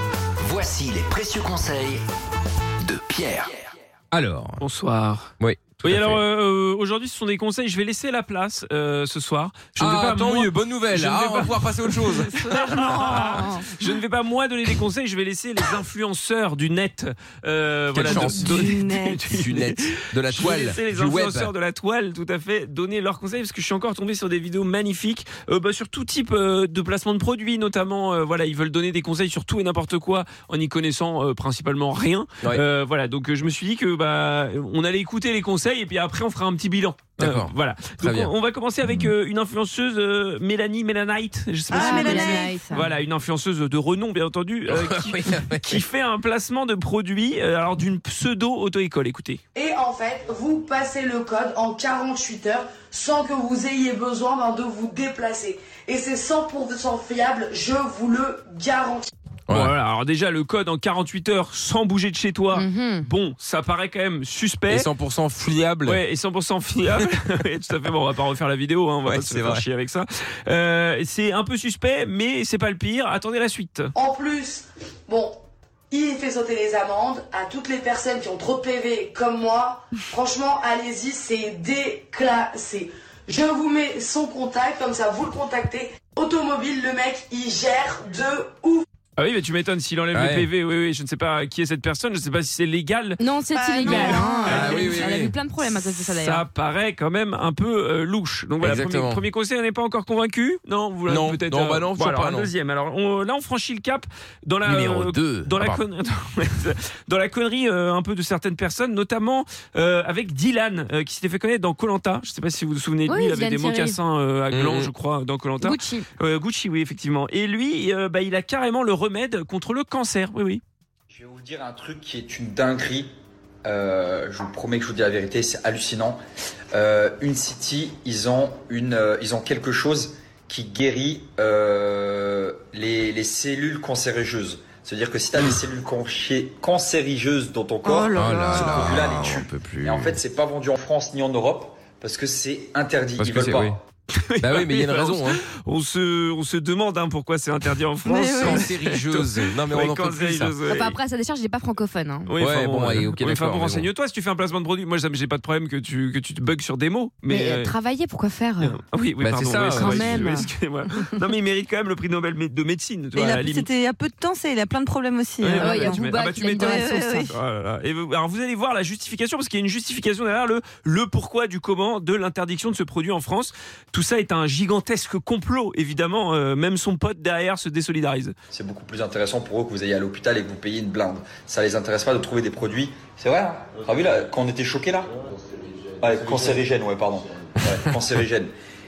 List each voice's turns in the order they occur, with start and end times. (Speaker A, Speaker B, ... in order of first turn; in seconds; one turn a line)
Speaker A: 0.4-2.0
Speaker A: 2.8-3.5
Speaker B: 4.1-4.6
Speaker C: 4.6-5.3
Speaker B: 5.4-6.2
Speaker C: 5.8-49.4
Speaker B: 9.8-12.4
Speaker B: 12.9-13.4
Speaker D: 13.2-13.7
Speaker B: 17.9-21.5
Speaker E: 18.1-19.2
Speaker B: 37.2-38.3
Speaker E: 41.7-42.5
Speaker D: 41.7-42.9
Speaker B: 44.7-45.8
Speaker F: 49.5-59.1
Speaker B: 59.5-59.7
Speaker C: 59.5-64.9
Speaker D: 62.5-63.1
Speaker B: 64.7-66.0
Speaker C: 65.9-73.9
Speaker B: 69.0-69.7
Speaker F: 74.0-75.4
Speaker F: 75.9-88.9
Speaker C: 89.2-93.2
Speaker B: 90.1-90.5
Speaker D: 93.2-96.5
Speaker E: 93.5-94.7
Speaker C: 93.8-95.1
Speaker B: 93.9-95.4
Speaker C: 96.1-120.6
Speaker B: 98.6-99.2
Speaker B: 101.1-102.5
Speaker B: 104.6-105.8
Speaker D: 113.1-114.0
Speaker B: 114.5-114.9
Speaker D: 115.6-116.1
Speaker G: 121.1-123.1
Speaker G: 123.7-126.2
Speaker G: 126.7-143.8
Speaker E: 137.8-138.9
Speaker B: 138.2-140.2
Speaker B: 143.2-143.8
Speaker C: 144.1-151.0
Speaker B: 144.4-145.4
Speaker E: 148.1-148.8
Speaker B: 148.3-150.6
Speaker D: 150.6-152.4
Speaker C: 152.3-157.7
Speaker B: 152.4-153.9
Speaker D: 157.3-158.8
Speaker C: 158.6-163.7
Speaker B: 159.2-160.4
Speaker D: 159.7-160.5
Speaker E: 163.2-166.1
Speaker C: 165.4-178.3
Speaker D: 165.6-167.3
Speaker E: 166.6-167.3
Speaker G: 178.5-185.1
Speaker G: 186.0-188.5